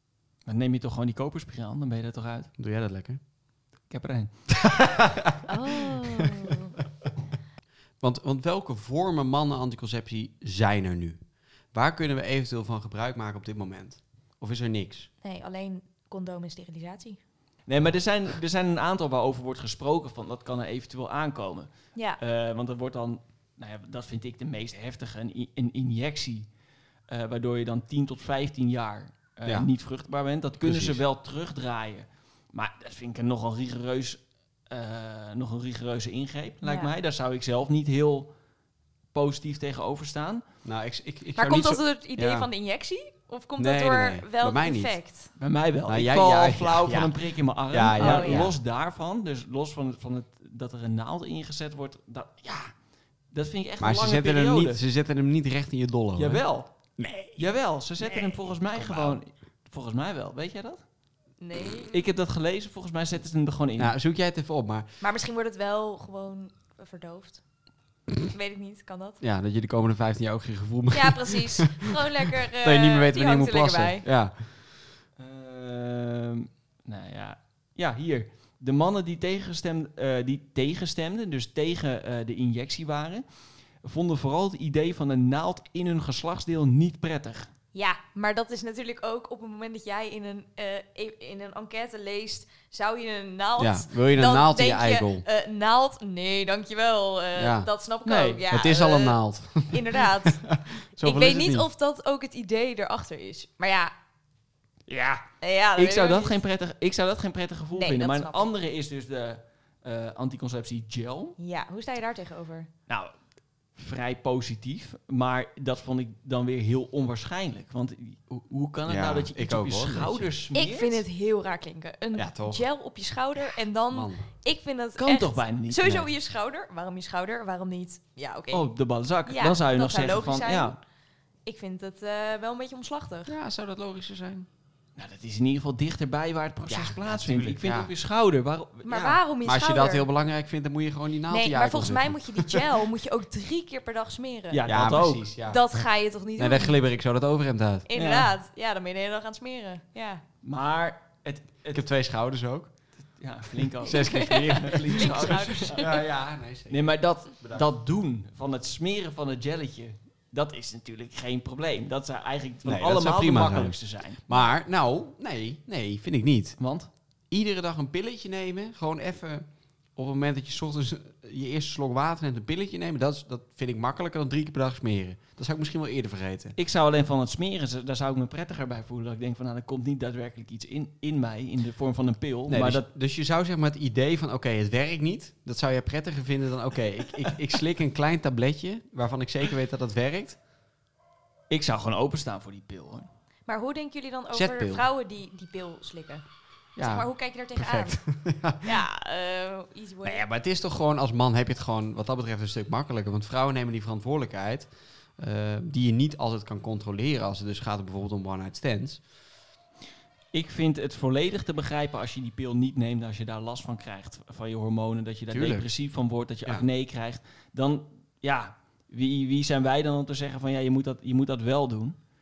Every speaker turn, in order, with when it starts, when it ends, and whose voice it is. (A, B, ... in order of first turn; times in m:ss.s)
0:00.4-0:02.5 A
0:02.6-0:03.2 B
0:03.9-0:04.6 A
0:04.6-0:05.3 B
0:05.5-0:06.7 C
0:08.0-0:11.2 B
0:11.7-0:15.1 B
0:15.2-0:17.2 C
0:17.7-0:26.5 A
0:21.9-0:22.2 C
0:27.1-0:38.3 A
0:30.6-0:31.0 B
0:36.6-0:36.9 C
0:39.1-0:40.4 A
0:40.6-0:42.5 B
0:41.4-0:45.3 C
0:43.6-0:45.0 B
0:45.4-0:52.7 A
0:45.9-0:47.2 B
0:47.7-0:48.6 B
0:48.0-0:48.5 C
0:53.3-0:54.8 A
0:53.8-0:56.4 B
0:56.2-0:56.7 A
0:57.0-0:57.4 B
0:57.4-1:00.8 A
0:58.7-0:59.2 B
1:01.4-1:02.0 C
1:01.9-1:03.9 A
1:03.8-1:04.9 B
1:05.0-1:07.4 C
1:08.3-1:09.2 C
1:09.2-1:14.4 B
1:10.9-1:14.0 C
1:15.2-1:23.2 A
1:23.8-1:27.5 A
1:27.7-1:40.4 C
1:33.6-1:35.2 B
1:37.4-1:37.7 B
1:38.0-1:38.4 A
1:38.5-1:41.7 B
1:41.0-1:43.9 C
1:44.9-1:45.2 A
1:45.4-1:46.4 C
1:45.8-1:51.4 A
1:47.7-1:48.5 C
1:51.4-1:52.7 C
1:52.9-1:53.1 A
1:53.8-2:01.0 A
1:58.9-2:00.3 B
2:00.5-2:08.7 C
2:02.1-2:02.6 B
2:03.9-2:04.2 B
2:05.0-2:06.0 A
2:08.5-2:10.8 A
2:09.2-2:10.8 C
2:11.4-2:13.3 C
2:13.3-2:14.5 B
2:15.0-2:19.2 A
2:16.7-2:17.9 B
2:18.8-2:20.1 C
2:19.4-2:22.7 B
2:21.3-2:24.7 C
2:24.5-2:25.2 A
2:24.6-2:25.6 B
2:25.4-2:26.8 C
2:26.4-2:27.9 B
2:27.9-2:30.2 C
2:28.0-2:28.3 A
2:30.4-2:31.8 A
2:31.7-2:32.7 B
2:33.2-2:35.9 A
2:33.8-2:37.7 B
2:33.9-2:36.0 C
2:36.7-2:44.2 A
2:42.6-2:46.6 B
2:46.6-2:46.9 A
2:47.3-2:56.6 B
2:56.6-3:02.9 A
3:02.5-3:10.4 B
3:11.5-3:13.1 A
3:13.5-3:16.2 C
3:14.3-3:14.9 B
3:16.8-3:18.8 B
3:16.8-3:18.0 C
3:18.6-3:20.2 C
3:20.0-3:29.0 B
3:30.3-3:42.0 A
3:35.3-3:35.7 B